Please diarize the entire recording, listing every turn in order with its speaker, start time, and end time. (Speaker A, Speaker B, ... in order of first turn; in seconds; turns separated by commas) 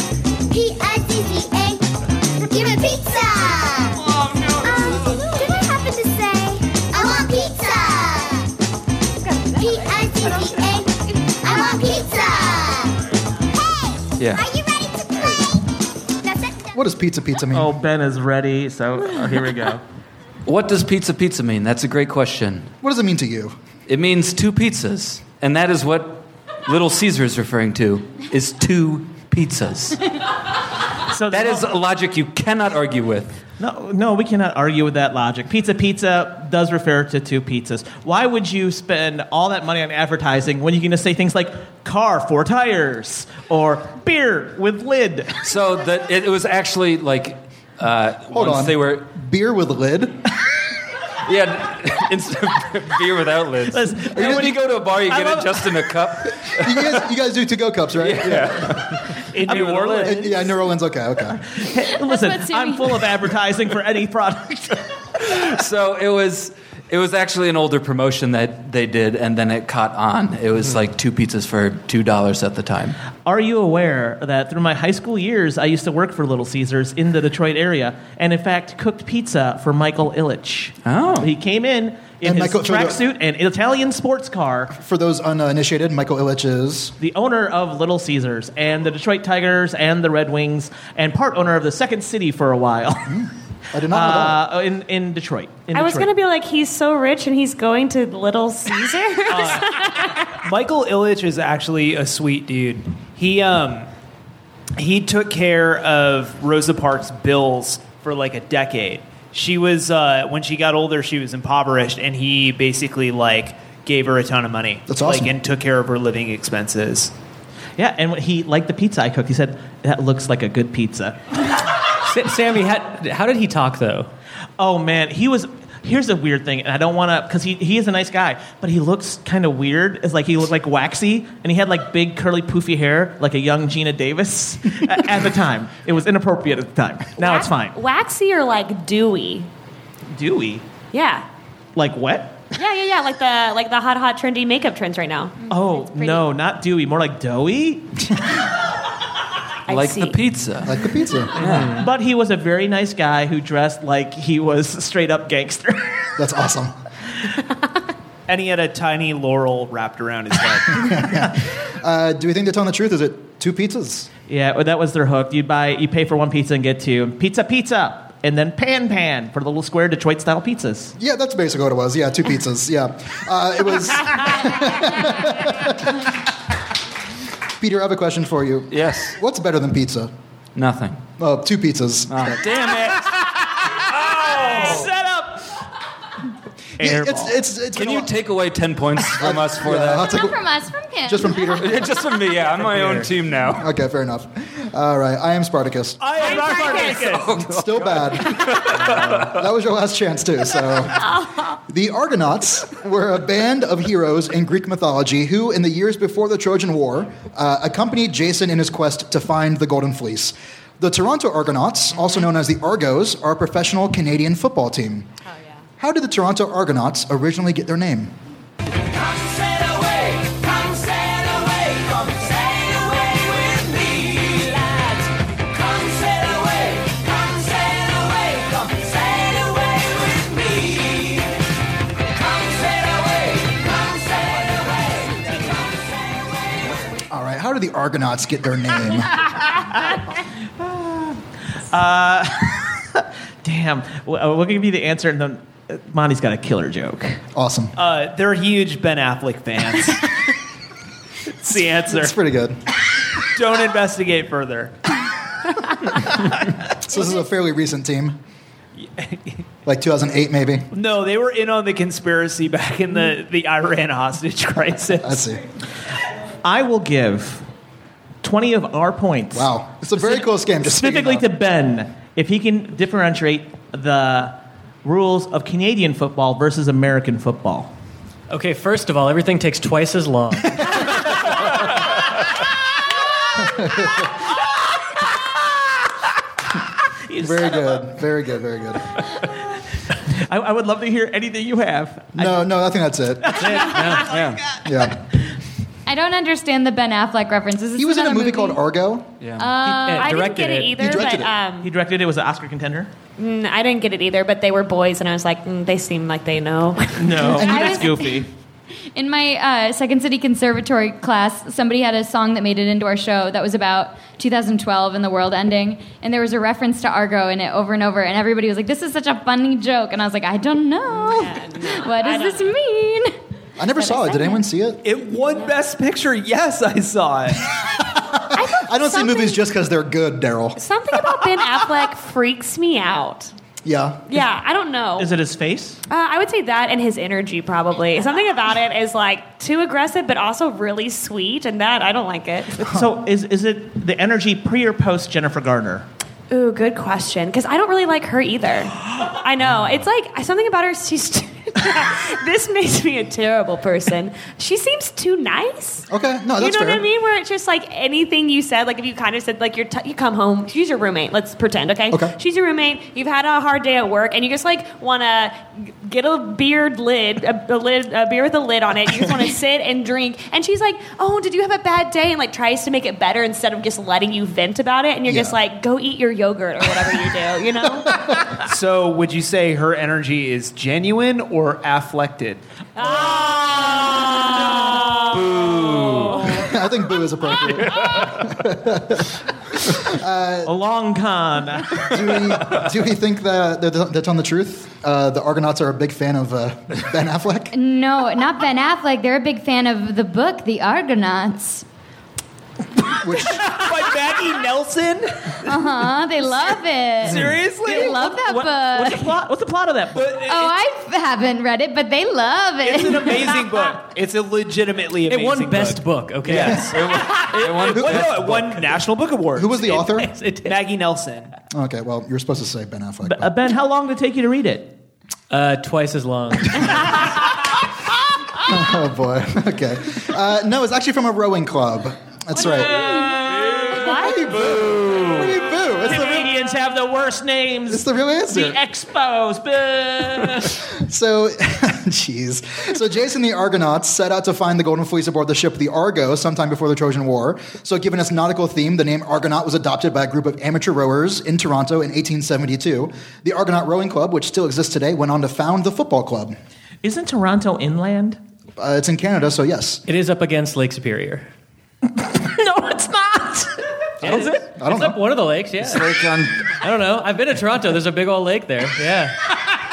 Speaker A: 0.5-1.8, Speaker A: 2.4-8.5, Speaker A: 9.3-12.9, Speaker A: 13.5-15.7, Speaker B: 14.2-14.4, Speaker A: 16.2-16.7, Speaker C: 16.7-17.7, Speaker D: 17.5-19.8, Speaker B: 20.4-22.7, Speaker C: 22.8-23.6, Speaker B: 23.9-30.1, Speaker D: 31.1-31.7, Speaker B: 31.3-33.4, Speaker D: 33.6-45.4, Speaker B: 45.4-49.0, Speaker C: 48.3-50.2, Speaker B: 51.2-57.0, Speaker D: 53.7-55.7, Speaker C: 54.1-54.5, Speaker C: 56.5-58.7, Speaker B: 58.0-59.7, Speaker D: 59.3-60.5, Speaker E: 59.4-60.3, Speaker C: 60.0-61.4, Speaker D: 61.3-64.9, Speaker F: 62.0-63.0, Speaker B: 65.2-73.0, Speaker D: 73.2-84.7, Speaker B: 80.8-81.3, Speaker C: 82.2-83.0, Speaker C: 84.7-86.9, Speaker D: 87.0-93.2, Speaker C: 93.1-94.4, Speaker D: 93.8-96.1, Speaker G: 95.7-100.3, Speaker E: 99.3-103.9, Speaker E: 104.8-117.1, Speaker C: 114.9-115.3, Speaker D: 117.8-121.2, Speaker H: 122.0-124.1, Speaker D: 124.6-137.8, Speaker G: 137.2-139.5, Speaker D: 140.1-140.6, Speaker G: 140.9-141.3, Speaker D: 141.7-142.4, Speaker G: 142.6-146.0, Speaker D: 145.5-147.9, Speaker G: 149.7-150.2, Speaker B: 149.7-150.8, Speaker C: 150.6-151.4, Speaker B: 151.3-151.8, Speaker H: 151.4-151.9, Speaker D: 151.7-156.1, Speaker C: 156.2-156.8, Speaker E: 158.3-161.0, Speaker C: 160.7-164.1, Speaker D: 164.3-170.9, Speaker C: 171.0-176.2, Speaker C: 177.6-180.1, Speaker B: 178.7-179.2, Speaker B: 180.6-181.0, Speaker C: 181.2-182.4, Speaker B: 182.1-184.9, Speaker D: 183.7-185.5, Speaker C: 186.8-188.1, Speaker D: 186.8-187.3, Speaker B: 187.8-190.1, Speaker C: 189.1-190.4, Speaker F: 190.1-191.6, Speaker C: 191.1-191.8, Speaker B: 191.5-193.7, Speaker H: 192.6-193.1, Speaker C: 193.6-196.0, Speaker E: 196.0-197.3, Speaker G: 196.2-197.1, Speaker D: 196.2-197.2, Speaker C: 197.2-201.1, Speaker B: 197.3-199.4, Speaker G: 201.0-201.5, Speaker C: 201.7-215.1, Speaker C: 215.8-218.1, Speaker C: 237.1-239.2, Speaker D: 239.6-240.0, Speaker D: 241.7-247.2, Speaker C: 247.3-247.7, Speaker E: 247.7-250.3, Speaker E: 251.4-252.1, Speaker C: 251.9-252.6, Speaker E: 253.2-254.8, Speaker C: 256.8-258.2, Speaker E: 258.8-259.4, Speaker C: 259.6-260.7, Speaker E: 260.7-265.2, Speaker C: 265.0-265.4, Speaker D: 266.4-267.4, Speaker D: 268.2-277.7, Speaker C: 269.3-271.3, Speaker H: 278.3-280.9, Speaker C: 283.4-284.1, Speaker D: 287.1-287.8, Speaker C: 287.2-289.0, Speaker D: 290.1-292.4, Speaker C: 292.1-293.7, Speaker D: 293.2-294.6, Speaker H: 293.5-294.2, Speaker B: 294.1-294.4, Speaker C: 294.6-295.1, Speaker F: 295.9-298.6, Speaker C: 297.8-299.1, Speaker B: 299.2-299.6, Speaker F: 299.4-300.1, Speaker H: 299.6-300.8, Speaker G: 299.9-301.7, Speaker C: 300.8-301.3, Speaker D: 301.6-302.9, Speaker G: 303.2-307.8, Speaker D: 307.0-308.3, Speaker C: 307.4-307.7, Speaker F: 307.4-308.1, Speaker F: 308.9-323.1, Speaker G: 321.0-322.5, Speaker C: 323.6-324.8, Speaker F: 323.8-324.4, Speaker E: 324.8-327.8, Speaker G: 325.1-325.6, Speaker C: 327.9-330.6, Speaker G: 328.3-329.4, Speaker G: 330.6-333.3, Speaker C: 333.6-334.1, Speaker G: 334.1-335.1, Speaker D: 335.0-335.8, Speaker G: 335.9-342.7, Speaker D: 342.6-345.9, Speaker G: 346.3-378.0, Speaker C: 355.9-356.9, Speaker C: 375.1-375.4, Speaker C: 377.9-378.3, Speaker E: 378.4-382.4, Speaker G: 382.8-386.5, Speaker D: 383.0-383.3, Speaker B: 385.0-386.3, Speaker C: 386.3-390.5, Speaker D: 390.4-392.1, Speaker C: 391.9-397.5, Speaker F: 397.5-401.6, Speaker C: 403.0-403.5, Speaker E: 403.3-405.4, Speaker F: 405.4-409.2, Speaker D: 407.0-410.5, Speaker E: 407.1-408.0, Speaker E: 409.9-410.4, Speaker F: 410.2-413.7, Speaker E: 412.6-419.8, Speaker H: 415.1-416.8, Speaker C: 416.3-416.7, Speaker B: 416.5-418.4, Speaker C: 417.7-418.6, Speaker C: 419.3-420.1, Speaker D: 419.6-419.9, Speaker H: 420.2-420.6, Speaker E: 420.4-421.3, Speaker C: 421.5-423.3, Speaker D: 423.0-424.8, Speaker H: 425.3-427.1, Speaker C: 428.4-432.9, Speaker D: 432.4-433.9, Speaker B: 433.3-435.2, Speaker G: 433.7-434.3, Speaker C: 433.8-436.3, Speaker D: 434.9-440.4, Speaker C: 437.7-438.6, Speaker C: 440.4-456.4, Speaker D: 456.8-458.2, Speaker C: 458.6-459.8, Speaker H: 459.9-461.3, Speaker D: 462.1-464.5, Speaker H: 464.0-469.2, Speaker C: 464.0-465.0, Speaker B: 465.6-466.6